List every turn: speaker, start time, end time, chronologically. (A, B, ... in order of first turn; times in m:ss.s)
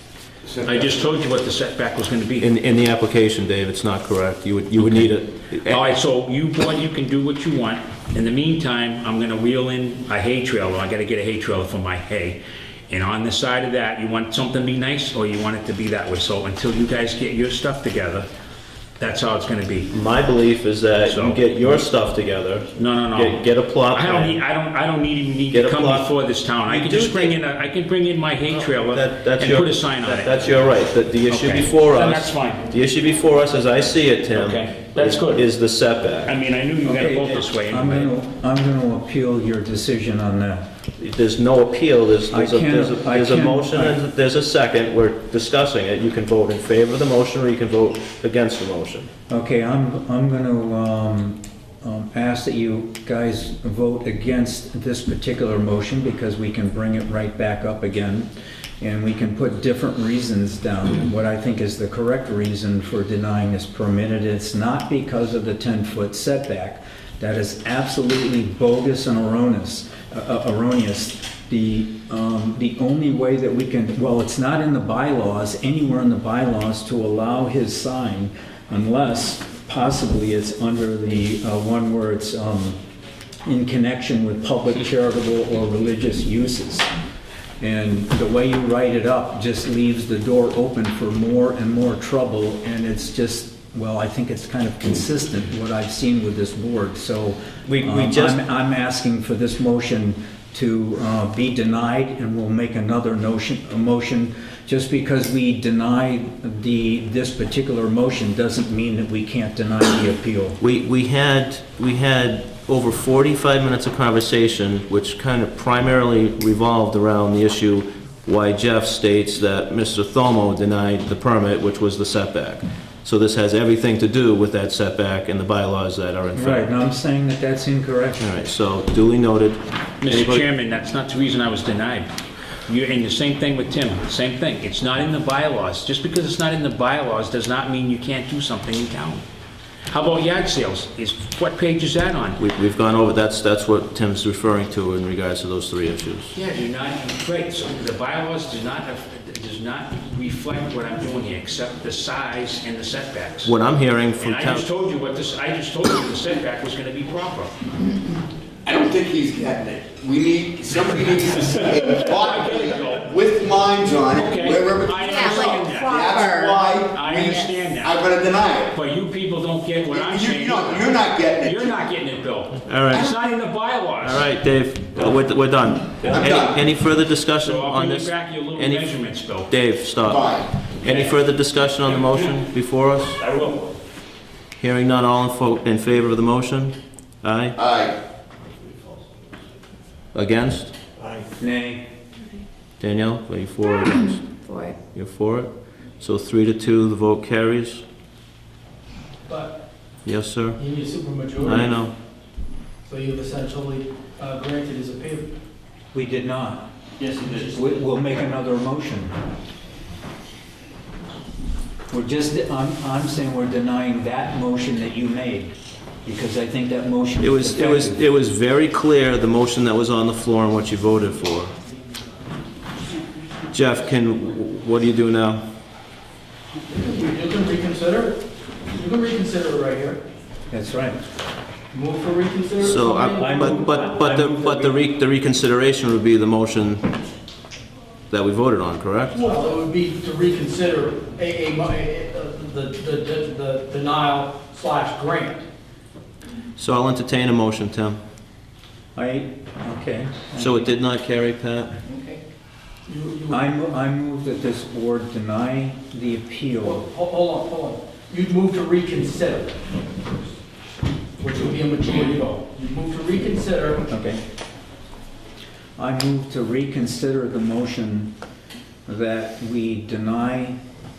0:00.4-0:01.0 A
0:00.6-0:02.5 B
0:02.4-0:05.8 C
0:05.5-0:18.3 B
0:19.0-0:19.9 B
0:19.9-0:24.4 C
0:21.0-0:21.4 B
0:22.7-0:32.6 B
0:25.5-0:27.4 C
0:28.5-0:36.3 C
0:34.3-0:35.4 B
0:36.2-0:38.1 B
0:36.8-0:40.7 D
0:41.0-0:49.1 C
0:42.3-0:44.0 D
0:49.3-1:22.8 D
1:23.4-1:26.9 D
1:27.6-1:50.6 D
1:37.6-1:38.4 C
1:50.6-2:06.7 C
2:06.3-2:08.2 D
2:08.2-2:10.4 C
2:10.0-2:12.1 B
2:12.7-2:19.2 B
2:19.9-2:22.4 B
2:22.4-2:26.3 C
2:26.3-2:33.6 B
2:33.4-2:34.6 C
2:34.2-2:37.6 B
2:38.6-2:48.8 A
2:41.6-2:43.5 B
2:44.0-2:46.1 B
2:45.0-2:46.6 E
2:46.8-2:48.1 B
2:48.6-2:54.3 B
2:49.9-2:51.9 A
2:52.6-2:53.1 C
2:52.9-2:53.2 A
2:54.0-3:03.2 C
2:56.0-2:56.7 A
2:57.4-2:59.5 B
3:00.0-3:00.6 A
3:00.8-3:01.1 B
3:01.7-3:02.4 B
3:03.2-3:03.7 B
3:04.6-3:07.6 C
3:07.6-3:08.0 A
3:10.1-3:10.7 C
3:11.4-3:11.9 D
3:12.8-3:14.3 C
3:13.9-3:14.8 E
3:14.8-3:17.8 C
3:19.3-3:19.6 F
3:20.0-3:20.6 C
3:20.6-3:21.8 F
3:21.4-3:21.9 C
3:22.8-3:25.3 F
3:25.9-3:26.7 D
3:27.1-3:27.7 F
3:27.5-3:29.1 D
3:31.9-3:35.5 D
3:36.0-3:38.0 D
3:37.2-3:41.5 C
3:43.5-3:45.5 C
3:46.6-3:50.0 F
3:50.5-3:51.0 D
3:51.7-3:53.8 F
3:52.6-3:56.8 C
3:53.2-3:54.8 D
3:58.1-3:59.2 C
3:59.1-4:05.4 F
4:06.6-4:08.0 C
4:08.9-4:10.7 D
4:10.4-4:11.8 C
4:12.8-4:13.5 F
4:13.3-4:16.8 D
4:16.6-4:19.6 F
4:21.2-4:23.9 F
4:23.9-4:24.2 D
4:25.8-4:28.1 D
4:28.9-4:30.6 D